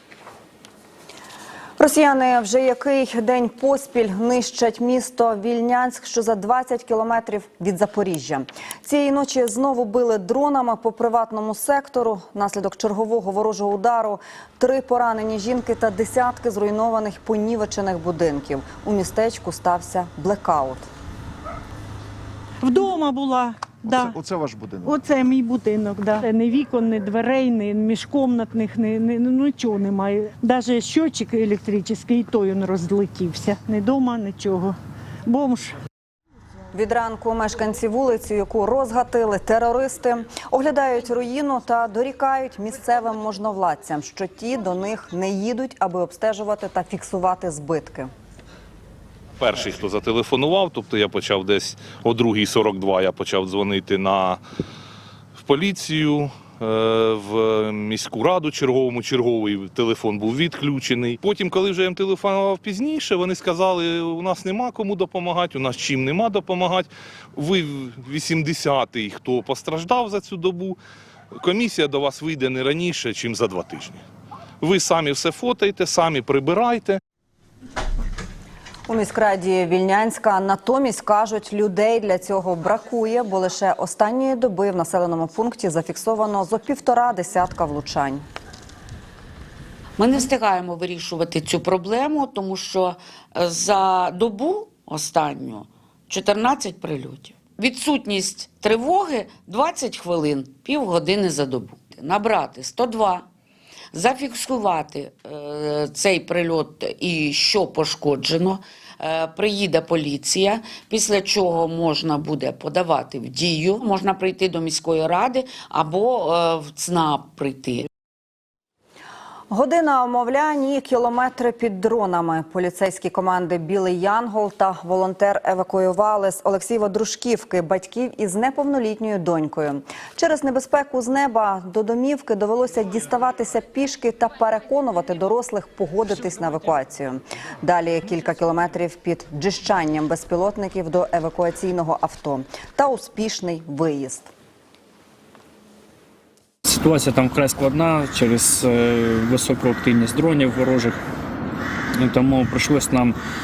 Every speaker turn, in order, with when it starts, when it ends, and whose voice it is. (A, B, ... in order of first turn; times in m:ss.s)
0:01.8-0:20.9 A
0:22.6-0:24.2 B
0:24.8-0:35.8 B
0:36.7-0:48.1 A
0:49.4-0:54.4 C
0:55.4-1:10.8 C
1:11.4-1:14.0 C
1:14.6-1:17.0 C
1:18.9-1:28.2 A
1:30.0-1:43.2 D
1:43.9-1:57.9 D
1:59.5-2:24.3 A
2:26.7-2:31.0 E
2:32.0-2:33.1 E